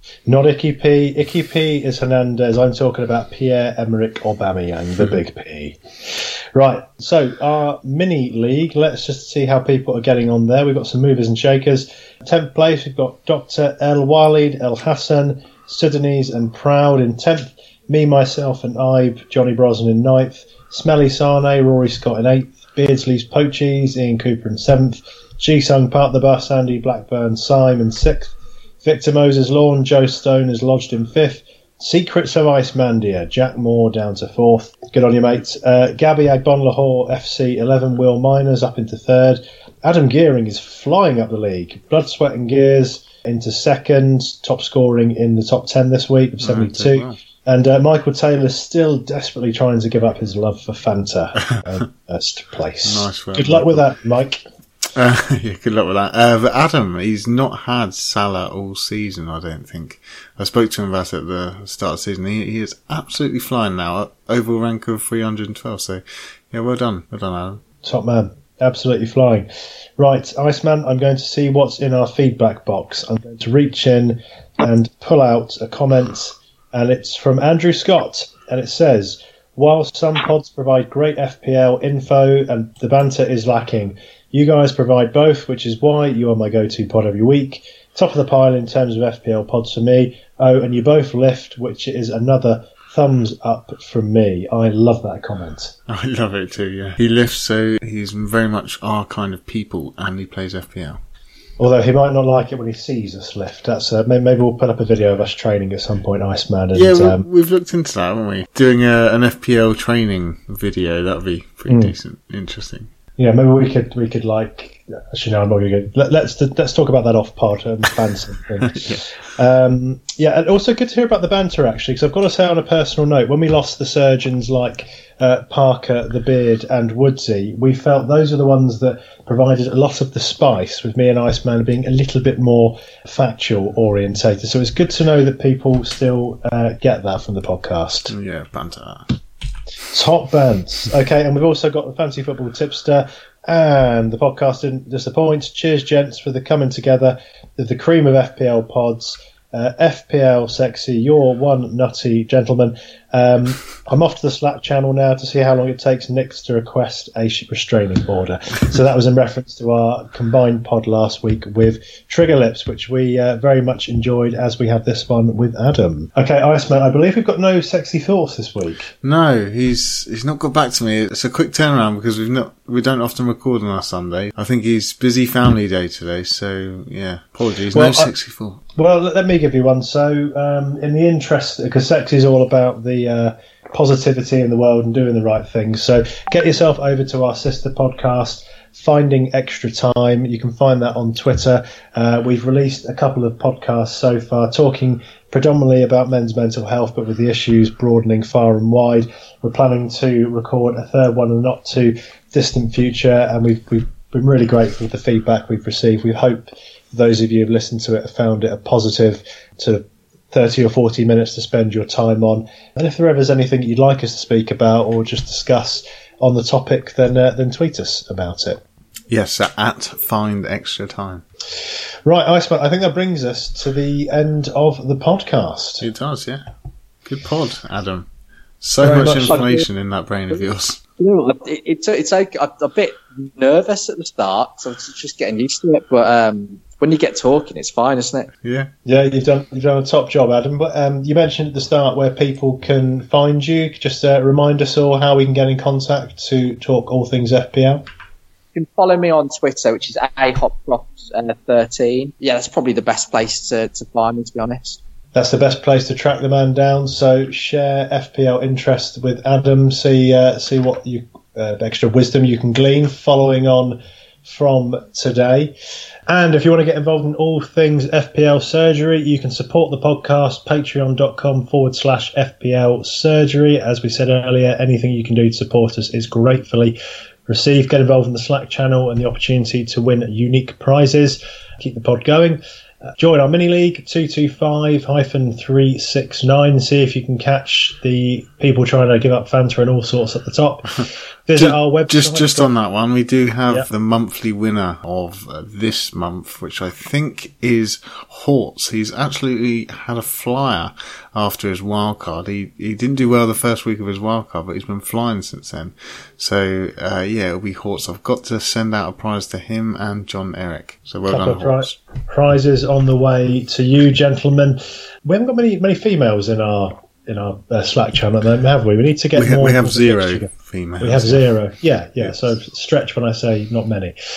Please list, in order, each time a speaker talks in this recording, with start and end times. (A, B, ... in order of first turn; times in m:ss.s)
0:00.3-0:54.4 A
0:46.4-0:47.2 B
0:52.8-0:53.9 B
0:55.0-1:07.6 B
1:07.8-1:09.5 A
1:10.0-1:35.8 A
1:35.9-1:41.0 B
1:41.6-1:47.2 A
1:46.7-1:52.9 B
1:51.7-1:52.0 A
1:53.2-2:18.1 A
1:58.7-1:59.1 B
2:18.1-2:19.2 B
2:19.9-2:48.9 A
2:49.0-2:58.6 B
2:57.7-2:58.1 A
2:58.8-3:38.6 A
3:39.1-3:41.2 B
3:42.0-3:45.9 A
3:45.8-3:46.5 B
3:47.0-3:48.1 B
3:48.6-3:50.8 B
3:48.8-3:49.6 A
3:49.3-3:49.6 C
3:51.0-3:58.3 C
3:58.4-3:58.7 B
3:58.8-4:07.8 A
4:08.5-4:14.8 C
4:15.2-4:25.5 A
4:26.1-4:36.8 A
4:37.3-4:42.4 A
4:43.0-4:52.5 A
4:51.4-5:11.8 B
5:11.1-5:20.3 A
5:19.2-5:21.3 B
5:20.8-5:23.9 A